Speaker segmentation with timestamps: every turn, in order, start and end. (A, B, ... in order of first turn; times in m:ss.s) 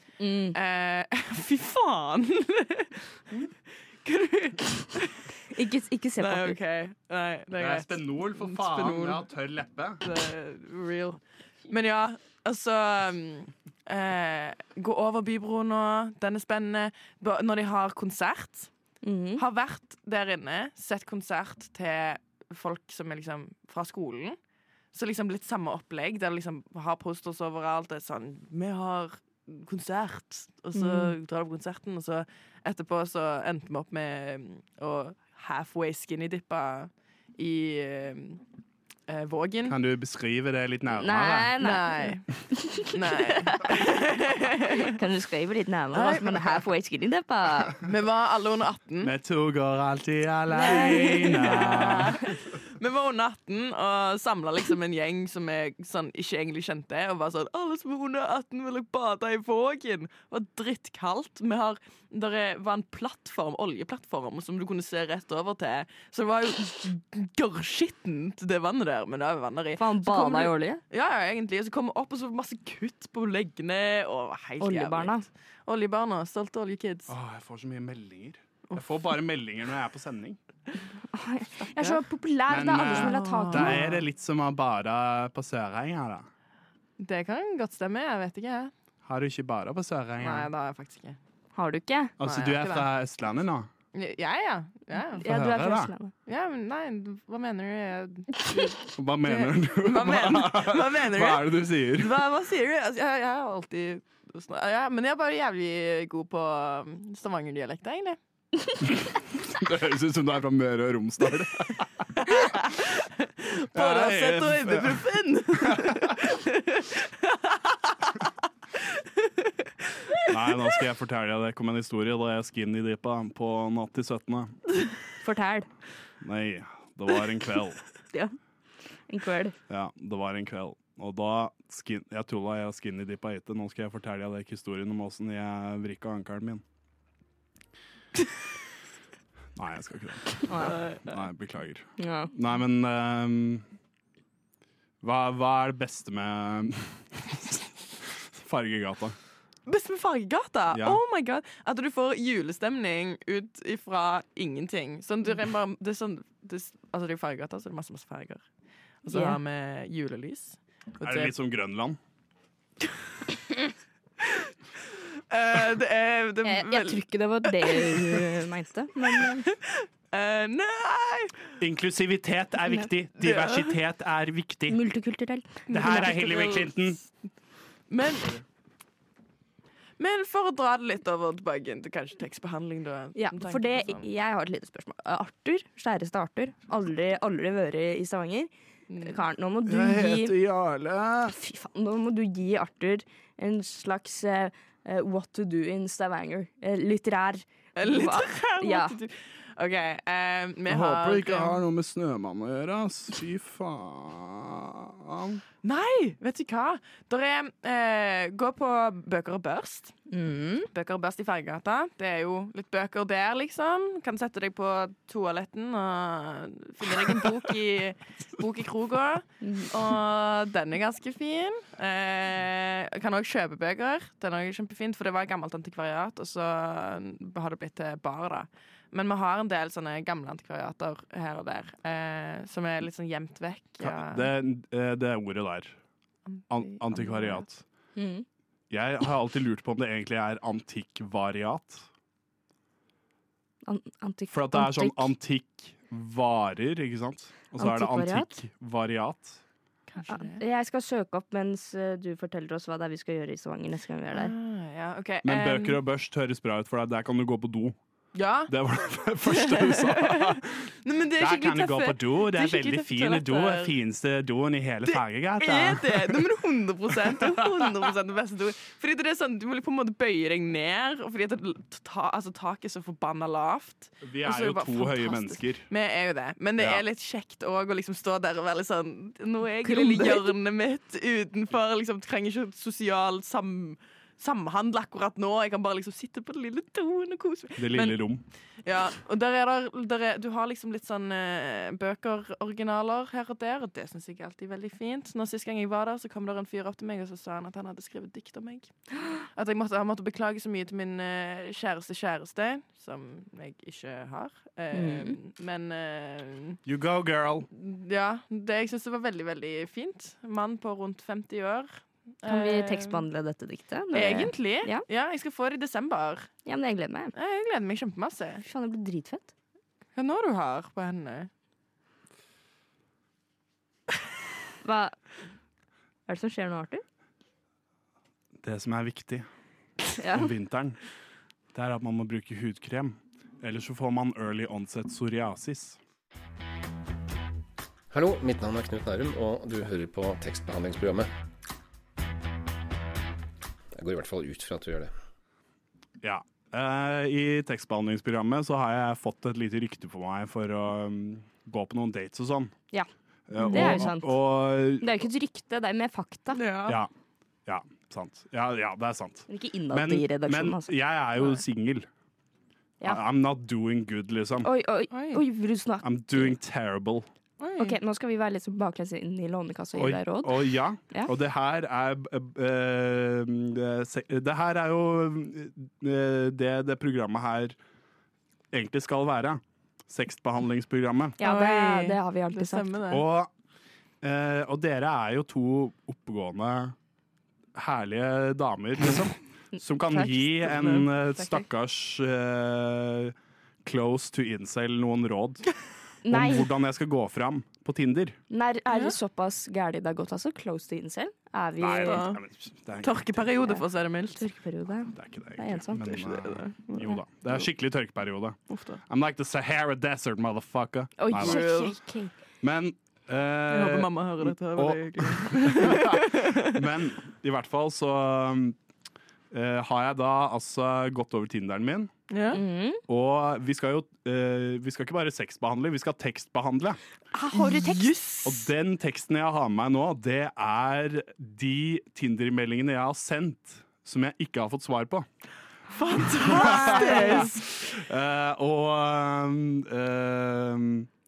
0:00.2-0:00.6 A
0:00.5-0:03.5 B
0:04.0-0:05.2 B
0:05.5-0:06.6 A
0:06.2-0:09.2 B
0:07.6-0:10.0 C
0:10.0-0:18.7 B
0:19.0-0:19.4 A
0:19.4-0:24.4 B
0:24.9-0:38.4 B
0:30.7-0:31.1 A
0:39.1-0:39.8 B
0:39.7-0:41.5 C
0:40.9-0:43.7 A
0:41.6-0:44.9 B
0:44.8-0:47.8 A
0:45.9-0:46.6 B
0:47.8-0:49.1 B
0:49.0-0:52.2 C
0:50.6-0:52.3 A
0:50.6-1:17.1 B
1:09.8-1:10.8 A
1:14.6-1:15.2 A
1:17.1-1:20.4 C
1:21.1-1:23.8 A
1:21.8-1:22.0 B
1:22.5-1:26.3 C
1:22.7-1:24.0 B
1:27.0-1:28.7 B
1:29.0-1:30.5 C
1:30.2-1:31.2 B
1:31.5-1:32.1 A
1:32.2-1:33.7 C
1:32.2-1:32.9 B
1:33.9-1:35.3 B
1:35.2-1:36.1 A
1:35.2-1:35.9 C
1:36.2-1:48.2 B
1:38.9-1:42.2 C
1:49.0-1:52.1 C
1:52.2-1:58.2 B
1:53.7-1:56.1 C
1:58.7-2:00.3 B
2:00.3-2:04.6 C
2:05.2-2:05.7 A
2:06.2-2:07.8 C
2:09.1-2:09.6 A
2:09.7-2:16.6 C
2:19.6-2:23.6 C
2:20.5-2:20.8 A
2:20.6-2:21.2 B
2:22.0-2:22.3 A
2:25.0-2:29.2 C
2:29.6-2:38.4 B
2:30.7-2:31.0 C
2:39.0-2:41.3 B
2:39.1-2:39.4 A
2:41.0-2:42.0 C
2:44.2-2:48.2 B
2:46.4-2:49.5 A
2:49.1-2:51.4 B
2:51.6-2:54.8 C
2:53.2-2:53.7 B
2:54.7-2:55.7 A
2:55.7-2:57.0 B
2:55.7-2:57.0 C
2:57.9-2:58.4 B
3:00.0-3:04.1 B
3:03.1-3:08.5 A
3:08.9-3:09.2 B
3:09.0-3:10.4 A
3:09.6-3:11.4 C
3:11.3-3:18.9 A
3:17.8-3:21.6 B
3:20.7-3:25.4 C
3:25.6-3:30.0 B
3:30.1-3:30.7 A
3:30.7-3:54.3 B
3:39.4-3:39.7 A
3:53.8-3:55.8 C
3:56.3-3:57.4 B
3:56.5-3:57.6 C
3:58.0-3:58.2 A
3:58.7-4:01.9 C
4:03.6-4:05.1 A
4:04.3-4:09.4 C
4:07.6-4:08.4 A
4:09.9-4:10.4 B
4:10.1-4:14.3 A
4:14.1-4:15.8 B
4:15.2-4:17.8 C
4:18.1-4:18.5 B
4:18.5-4:20.6 C
4:19.2-4:23.7 B
4:21.2-4:26.3 C
4:24.8-4:48.0 B
4:26.9-4:27.9 C
4:34.0-4:35.7 C
4:36.6-4:36.8 C
4:39.6-4:40.3 A
4:47.6-4:48.2 C
4:48.6-5:06.6 B
5:04.7-5:05.2 A
5:06.6-5:07.5 C
5:07.5-5:13.0 B
5:12.2-5:14.8 A
5:13.9-5:16.3 B
5:16.4-5:17.1 A
5:17.1-5:18.4 B
5:18.4-5:19.3 A
5:19.9-5:21.3 B
5:24.6-5:25.0 A
5:26.1-5:26.8 A
5:28.4-5:29.3 C
5:30.0-5:30.3 A
5:30.1-5:30.8 C
5:31.5-5:35.8 C
5:37.9-5:41.1 D
5:43.7-5:44.9 D
5:46.0-5:52.5 C
5:53.3-5:54.9 C
5:53.4-5:54.2 A
5:53.4-5:53.8 B
5:54.7-5:56.4 A
5:56.3-5:56.8 B
5:57.4-6:01.9 C
5:59.3-6:00.7 A
6:02.8-6:04.5 C
6:04.4-6:06.3 A
6:04.9-6:05.2 B
6:05.8-6:07.1 C
6:07.4-6:07.8 B
6:07.6-6:10.4 A
6:09.8-6:17.6 C
6:18.5-6:21.2 C
6:21.2-6:22.7 A
6:21.2-6:23.0 B
6:22.9-6:23.3 C
6:24.0-6:26.8 C
6:27.5-6:35.5 C
6:30.0-6:31.4 B
6:36.0-6:36.5 A
6:36.1-6:38.2 C
6:38.3-6:42.1 A
6:38.7-6:39.0 B
6:41.6-6:43.2 C
6:41.8-6:42.2 B
6:42.8-6:44.2 B
6:44.1-6:46.0 A
6:44.9-6:51.4 C
6:45.9-6:47.0 B
6:48.5-6:48.8 B
6:51.0-6:52.1 A
6:51.1-6:51.8 B
6:52.4-6:58.6 C
6:53.5-6:56.6 B
6:59.3-7:01.9 C
7:02.1-7:02.4 B
7:02.3-7:02.8 A
7:02.9-7:06.8 C
7:07.1-7:07.9 A
7:07.3-7:08.5 B
7:08.2-7:15.0 C
7:15.7-7:17.5 B
7:16.1-7:20.9 C
7:16.5-7:17.2 A